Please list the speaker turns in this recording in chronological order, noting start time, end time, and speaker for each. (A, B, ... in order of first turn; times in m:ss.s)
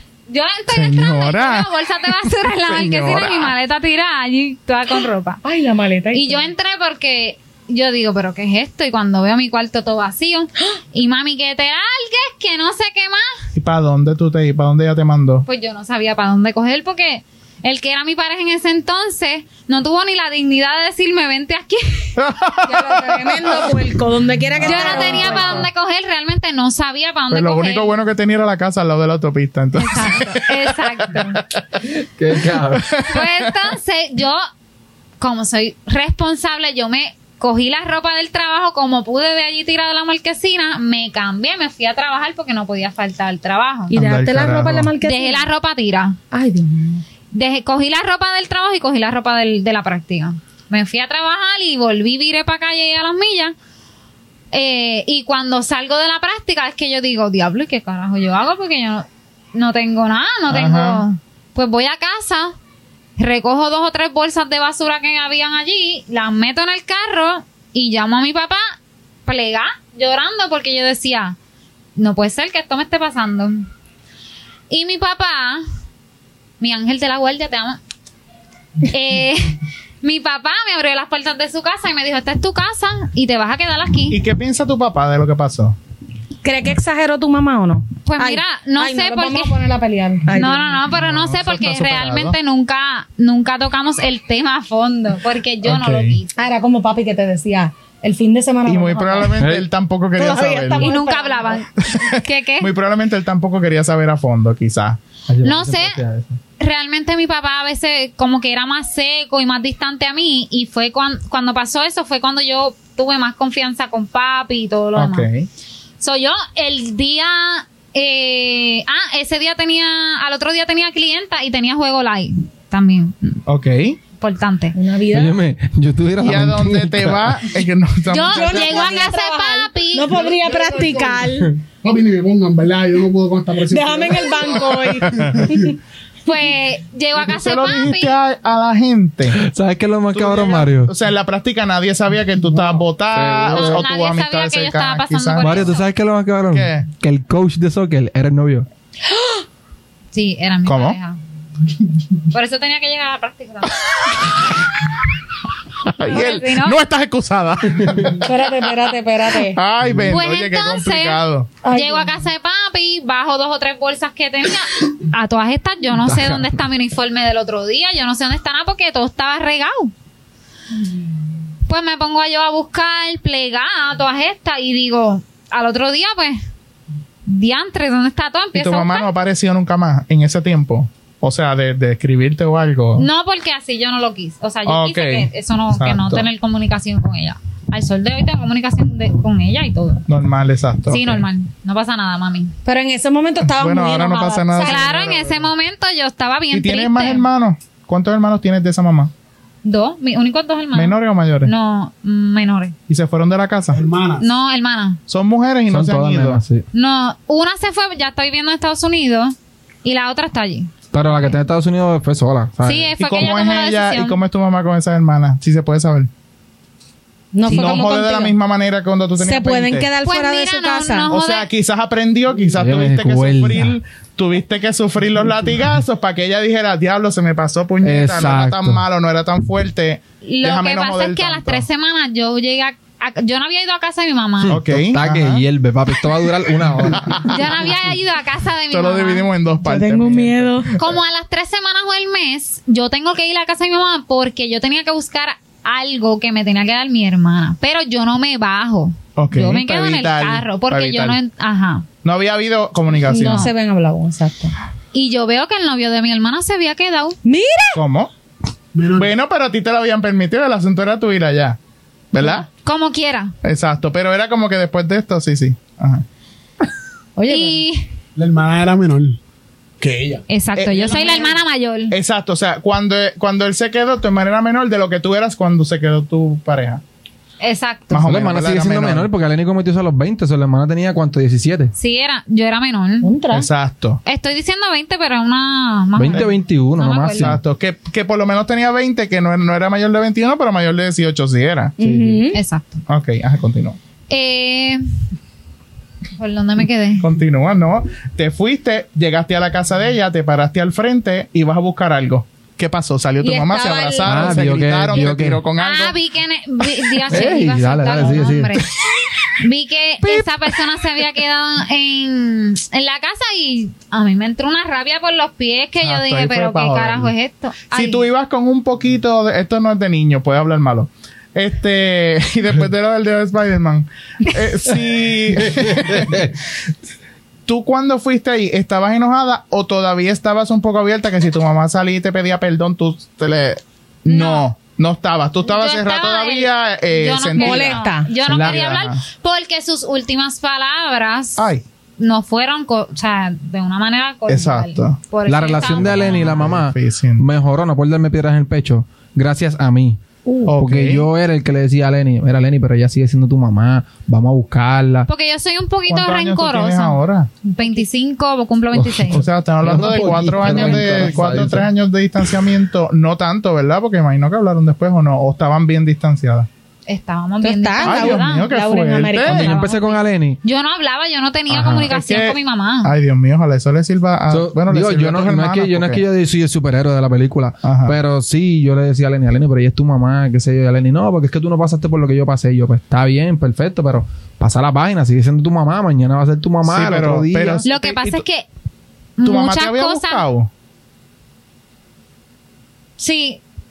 0:00.3-0:05.4 A
0:00.7-0:01.7 B
0:02.7-0:03.5 B
0:05.4-0:06.5 C
0:06.1-0:13.4 A
0:13.5-0:15.4 B
0:15.5-0:22.2 A
0:22.2-0:24.0 B
0:22.7-0:25.7 C
0:24.6-0:25.4 B
0:24.6-0:27.9 A
0:27.3-0:30.5 B
0:29.8-0:31.4 A
0:32.2-0:32.9 D
0:32.7-0:33.5 B
0:33.0-0:34.4 A
0:35.2-0:43.9 A
0:43.9-0:45.5 C
0:43.9-0:44.9 B
0:45.0-0:46.2 A
0:46.3-0:47.0 C
0:47.3-0:53.5 A
0:54.5-1:02.6 A
1:00.5-1:01.0 B
1:03.2-1:08.7 A
1:09.2-1:11.4 A
1:12.0-1:13.6 A
1:14.7-1:15.6 A
1:16.6-1:17.8 A
1:18.9-1:24.2 A
1:24.1-1:25.8 B
1:26.4-1:30.8 C
1:28.0-1:29.6 A
1:30.3-1:36.3 A
1:30.9-1:32.4 B
1:35.6-1:36.2 B
1:36.4-1:39.3 C
1:38.6-1:40.9 B
1:39.4-1:39.7 D
1:40.2-1:41.6 C
1:40.8-1:42.7 A
1:41.8-1:45.0 B
1:45.3-1:46.4 D
1:45.4-1:46.0 A
1:46.6-1:55.3 A
1:55.0-1:55.5 B
1:56.0-2:03.4 A
2:03.4-2:04.0 B
2:04.2-2:04.8 A
2:04.7-2:05.4 C
2:05.1-2:07.4 D
2:06.2-2:08.9 B
2:08.1-2:10.2 A
2:08.3-2:11.5 C
2:10.1-2:15.7 E
2:13.7-2:15.8 C
2:15.0-2:15.4 B
2:16.2-2:18.1 A
2:17.2-2:19.4 B
2:19.4-2:20.9 D
2:20.1-2:25.7 B
2:22.5-2:22.8 E
2:23.1-2:23.8 D
2:23.5-2:25.8 A
2:25.4-2:28.7 D
2:26.5-2:26.9 B
2:29.1-2:29.4 C
2:30.1-2:31.2 A
2:30.6-2:31.0 B
2:32.3-2:34.0 A
2:35.8-2:38.3 B
2:36.0-2:36.8 A
2:38.2-2:39.6 C
2:39.5-2:41.5 B
2:40.1-2:49.9 A
2:41.6-2:42.1 C
2:46.0-2:46.5 D
2:51.7-2:56.4 A
2:57.3-2:59.1 A
2:58.5-3:03.1 B
3:03.0-3:10.0 A
3:04.6-3:06.3 B
3:10.1-3:11.2 B
3:10.9-3:12.5 A
3:12.6-3:14.8 C
3:13.5-3:15.5 B
3:14.6-3:17.2 A
3:16.5-3:19.1 B
3:19.6-3:22.7 A
3:20.7-3:21.5 B
3:22.9-3:23.8 B
3:23.7-3:24.2 E
3:24.2-3:25.0 A
3:25.1-3:26.4 B
3:25.7-3:26.6 D
3:26.7-3:30.7 A
3:30.9-3:32.9 D
3:32.6-3:34.2 A
3:33.0-3:36.1 B
3:37.3-3:38.3 C
3:37.4-3:39.9 B
3:39.2-3:41.1 C
3:40.0-3:41.5 A
3:41.1-3:51.6 B
3:42.6-3:43.8 D
3:47.8-3:48.8 D
3:50.2-3:54.6 A
3:54.4-3:57.4 D
3:54.5-3:55.4 B
3:56.9-3:57.4 B
3:57.2-3:59.3 A
3:58.7-4:01.0 B
3:59.6-4:00.7 C
4:00.8-4:11.8 A
4:09.2-4:11.2 B
4:12.0-4:13.5 B
4:13.0-4:14.5 C
4:13.2-4:13.5 A
4:14.9-4:17.2 A
4:17.2-4:17.8 C
4:17.7-4:18.1 B
4:18.7-4:19.1 E
4:19.0-4:21.6 B
4:22.1-4:22.4 B
4:22.2-4:23.3 A
4:23.4-4:26.0 B
4:27.2-4:27.6 C
4:27.3-4:27.9 A
4:28.2-4:29.2 E
4:29.8-4:30.2 E
4:30.3-4:31.9 A
4:30.6-4:31.4 B
4:31.9-4:36.8 B
4:37.4-4:38.0 A
4:37.9-4:39.1 B
4:38.0-4:41.7 D
4:41.7-4:43.1 A
4:43.0-4:43.5 C
4:43.3-4:44.0 B
4:44.0-4:47.4 A
4:45.9-4:47.4 D
4:47.2-4:51.7 B
4:51.8-4:52.4 C
4:51.8-4:52.2 D
4:52.3-4:52.8 A
4:52.9-4:53.8 B
4:54.1-4:54.8 A
4:56.2-4:57.0 A
4:57.0-5:06.0 B
5:03.2-5:04.4 C
5:04.0-5:05.4 D
5:05.6-5:08.6 A
5:07.1-5:08.6 D
5:09.4-5:18.0 A
5:15.8-5:17.1 B
5:17.7-5:26.3 B
5:25.4-5:26.3 D
5:27.5-5:39.0 B
5:34.1-5:34.4 A
5:35.4-5:41.4 A
5:37.4-5:38.1 C
5:38.3-5:38.6 D
5:41.4-5:41.6 B
5:42.0-5:46.4 A
5:44.3-5:45.0 B
5:45.2-5:50.0 D
5:45.6-5:47.2 B
5:50.2-5:50.5 C
5:50.4-5:51.0 B
5:50.5-5:55.1 D
5:55.1-5:57.0 A
5:55.9-5:57.3 B
5:57.5-5:57.8 C
5:57.5-5:59.2 A
5:58.7-6:01.7 D
5:59.1-6:06.5 B
6:00.4-6:01.2 A
6:06.9-6:08.5 A
6:07.4-6:09.5 C
6:07.8-6:09.5 B
6:09.2-6:12.9 A
6:09.2-6:10.4 D
6:11.5-6:16.0 B
6:14.3-6:27.6 D
6:17.6-6:18.0 B
6:26.6-6:28.2 B
6:27.6-6:28.4 A
6:29.2-6:30.2 A
6:29.2-6:30.5 B
6:33.0-6:33.4 A